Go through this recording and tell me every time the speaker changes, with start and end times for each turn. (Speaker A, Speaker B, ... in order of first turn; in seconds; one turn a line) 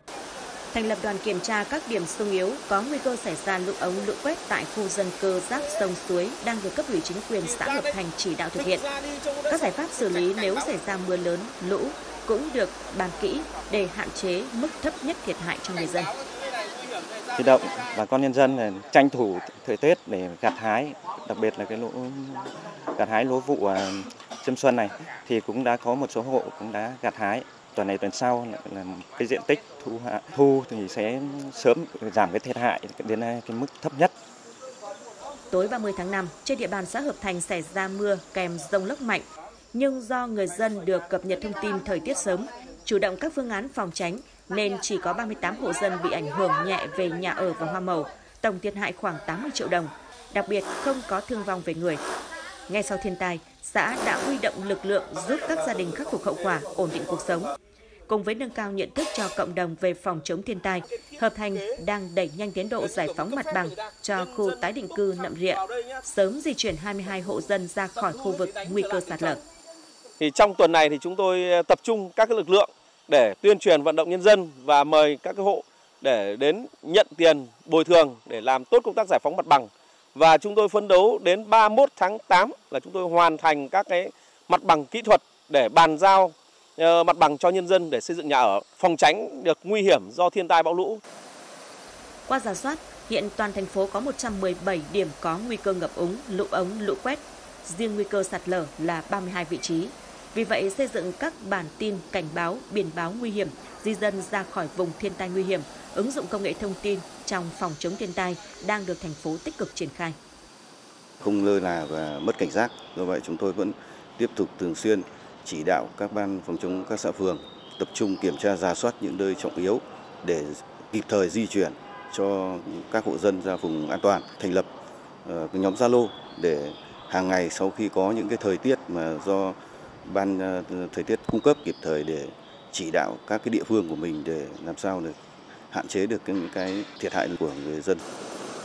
Speaker A: 0.7-8.8
Speaker B: 8.6-10.5
Speaker A: 9.5-16.1
Speaker C: 17.4-34.1
Speaker A: 35.5-52.0
Speaker A: 52.7-57.5
Speaker A: 58.1-69.4
Speaker B: 62.9-64.8
Speaker B: 65.6-66.0
Speaker B: 68.5-69.3
Speaker B: 70.2-91.0
Speaker A: 92.3-110.2
Speaker D: 111.2-124.7
Speaker D: 125.2-135.2
Speaker D: 135.7-138.0